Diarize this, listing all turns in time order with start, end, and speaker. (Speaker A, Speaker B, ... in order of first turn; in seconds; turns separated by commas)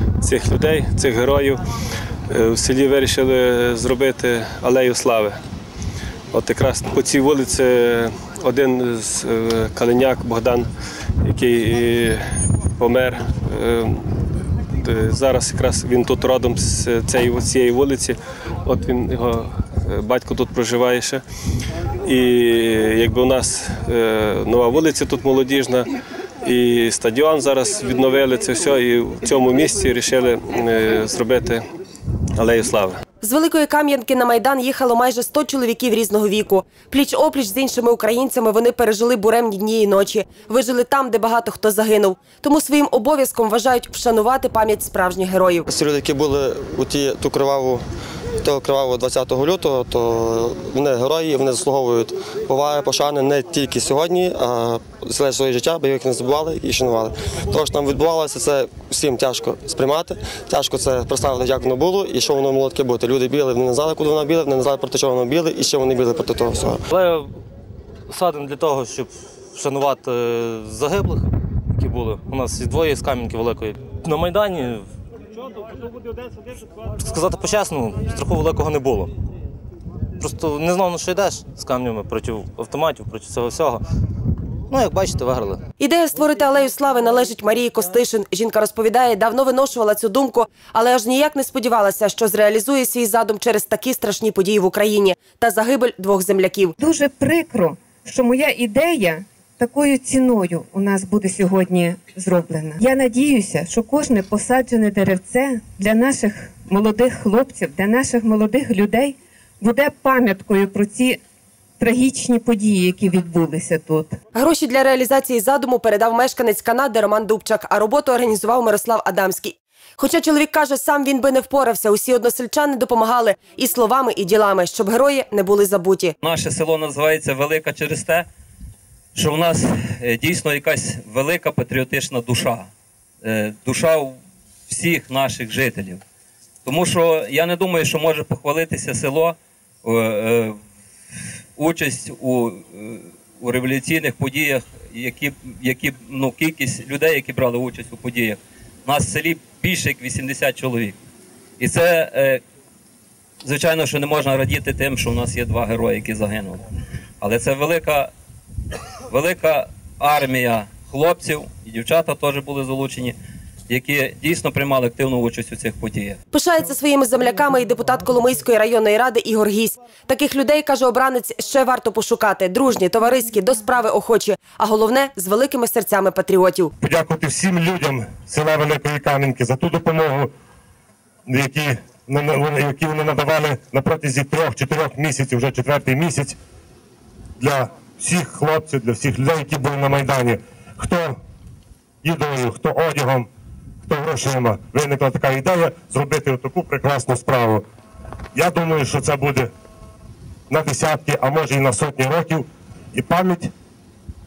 Speaker A: 0.2-1.6, Speaker A: 2.3-5.4, Speaker A: 6.3-10.7, Speaker A: 11.2-12.2, Speaker A: 12.8-14.1, Speaker A: 14.8-21.2, Speaker A: 22.0-25.9, Speaker A: 26.4-31.6, Speaker A: 32.4-33.0, Speaker B: 33.2-45.7, Speaker C: 45.7-47.8, Speaker C: 48.4-66.8, Speaker D: 66.9-67.3, Speaker D: 68.1-74.9, Speaker D: 77.0-79.1, Speaker D: 80.2-83.8, Speaker D: 84.7-85.6, Speaker B: 85.8-96.7, Speaker E: 96.8-111.2, Speaker E: 111.8-114.2, Speaker B: 114.3-126.1, Speaker F: 126.2-128.3, Speaker F: 129.1-132.7, Speaker F: 133.2-134.2, Speaker F: 134.7-136.0, Speaker F: 136.6-140.6, Speaker F: 141.6-151.0, Speaker F: 151.6-152.4, Speaker F: 153.4-156.6, Speaker F: 157.2-158.1, Speaker F: 159.1-163.2, Speaker F: 163.7-166.2, Speaker B: 166.3-176.7, Speaker G: 176.8-180.3, Speaker G: 181.3-186.4, Speaker G: 187.4-191.2, Speaker G: 192.0-193.3, Speaker G: 193.8-197.6, Speaker G: 198.3-199.5, Speaker G: 200.5-203.5